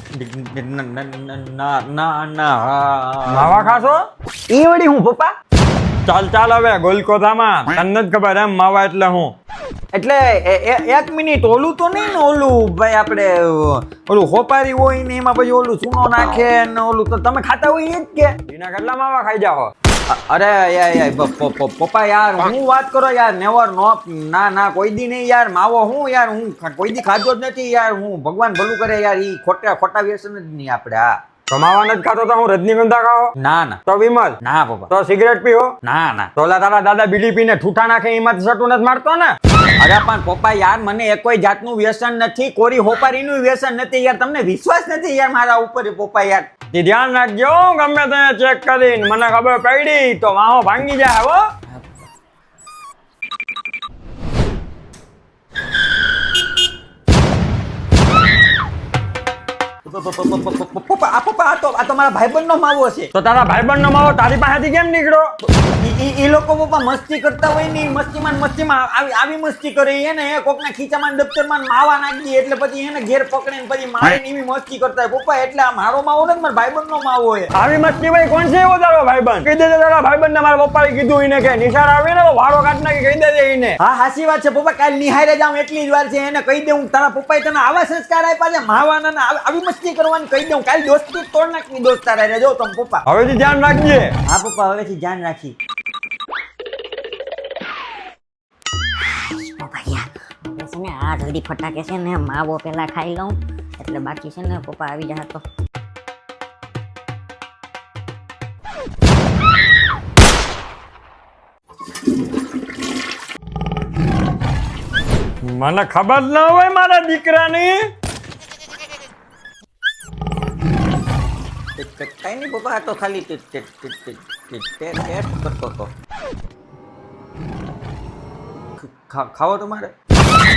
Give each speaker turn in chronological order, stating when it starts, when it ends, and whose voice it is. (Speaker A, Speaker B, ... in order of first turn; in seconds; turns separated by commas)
Speaker A: 0.1-3.9, Speaker B: 3.3-4.0, Speaker A: 4.5-5.3, Speaker B: 6.1-9.3, Speaker A: 9.9-18.3, Speaker B: 18.4-19.7, Speaker A: 20.1-31.2, Speaker B: 31.5-33.3, Speaker A: 33.4-33.8, Speaker B: 33.9-34.4, Speaker A: 34.4-34.9, Speaker B: 34.9-35.7, Speaker A: 35.8-36.3, Speaker B: 36.4-39.3, Speaker A: 39.8-46.5, Speaker B: 46.7-51.4, Speaker A: 59.9-63.1, Speaker B: 63.1-65.3, Speaker A: 65.4-77.5, Speaker B: 77.5-83.8, Speaker A: 83.8-93.0, Speaker B: 93.0-94.1, Speaker A: 94.2-95.5, Speaker C: 99.0-105.4, Speaker B: 115.4-117.9, Speaker A: 121.8-125.9, Speaker A: 128.8-129.9